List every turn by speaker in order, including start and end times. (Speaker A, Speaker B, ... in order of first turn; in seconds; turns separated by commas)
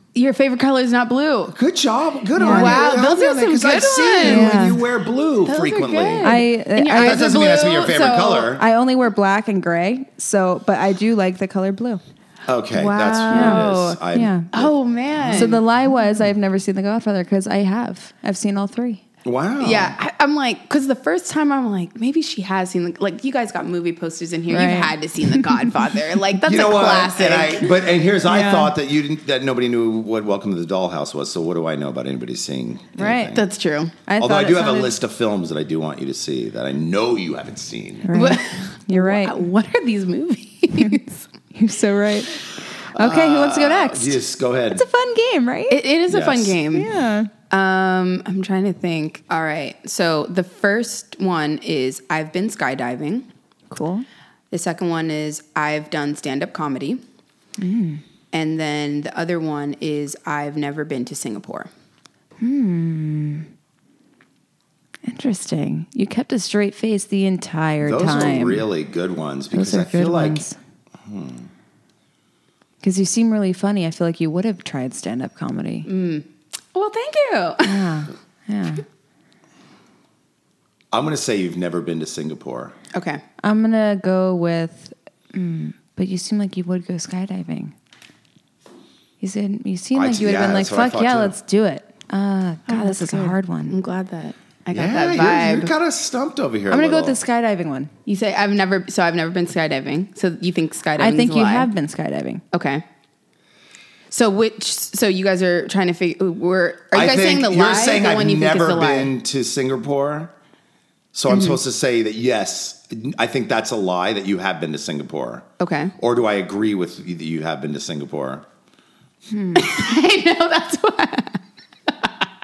Speaker A: 0.1-1.6, Speaker B: 1.5-6.4, Speaker C: 2.4-2.8, Speaker A: 2.4-4.6, Speaker C: 4.2-4.8, Speaker A: 5.4-8.6, Speaker C: 6.2-7.2, Speaker B: 6.9-8.6, Speaker C: 8.6-12.0, Speaker B: 12.5-15.6, Speaker A: 12.7-14.0, Speaker C: 13.3-14.5, Speaker A: 14.5-15.6, Speaker C: 15.3-19.0, Speaker B: 19.2-19.9, Speaker A: 19.6-27.8, Speaker C: 24.5-25.7, Speaker B: 26.4-33.4, Speaker C: 28.2-28.7, Speaker C: 33.0-33.3, Speaker A: 33.2-33.9, Speaker C: 34.1-34.9, Speaker B: 34.2-38.1, Speaker C: 38.0-39.4, Speaker A: 38.1-41.1, Speaker C: 41.5-44.2, Speaker B: 42.9-44.8, Speaker C: 44.7-45.8, Speaker A: 45.7-46.9, Speaker B: 46.1-46.6, Speaker C: 46.7-47.3, Speaker A: 47.5-53.3, Speaker C: 53.7-54.0, Speaker A: 54.5-57.0, Speaker C: 57.6-58.0, Speaker A: 58.3-61.7, Speaker C: 62.4-63.5, Speaker C: 65.0-68.7, Speaker B: 67.8-70.4, Speaker C: 69.5-70.6, Speaker B: 71.0-71.5, Speaker C: 72.8-75.9, Speaker A: 75.9-77.8, Speaker C: 77.6-78.8, Speaker B: 80.9-82.7, Speaker A: 82.9-83.2, Speaker C: 83.4-87.7, Speaker C: 89.2-93.7, Speaker B: 89.9-91.3, Speaker A: 92.7-95.7, Speaker B: 94.7-97.2, Speaker C: 96.7-97.9, Speaker A: 98.1-101.7, Speaker C: 101.0-102.4, Speaker A: 102.5-102.8, Speaker A: 104.1-109.1, Speaker B: 106.9-110.3, Speaker B: 111.1-115.5, Speaker A: 111.3-111.6, Speaker A: 115.6-115.9, Speaker B: 116.0-118.4, Speaker C: 119.3-119.7, Speaker A: 119.5-121.4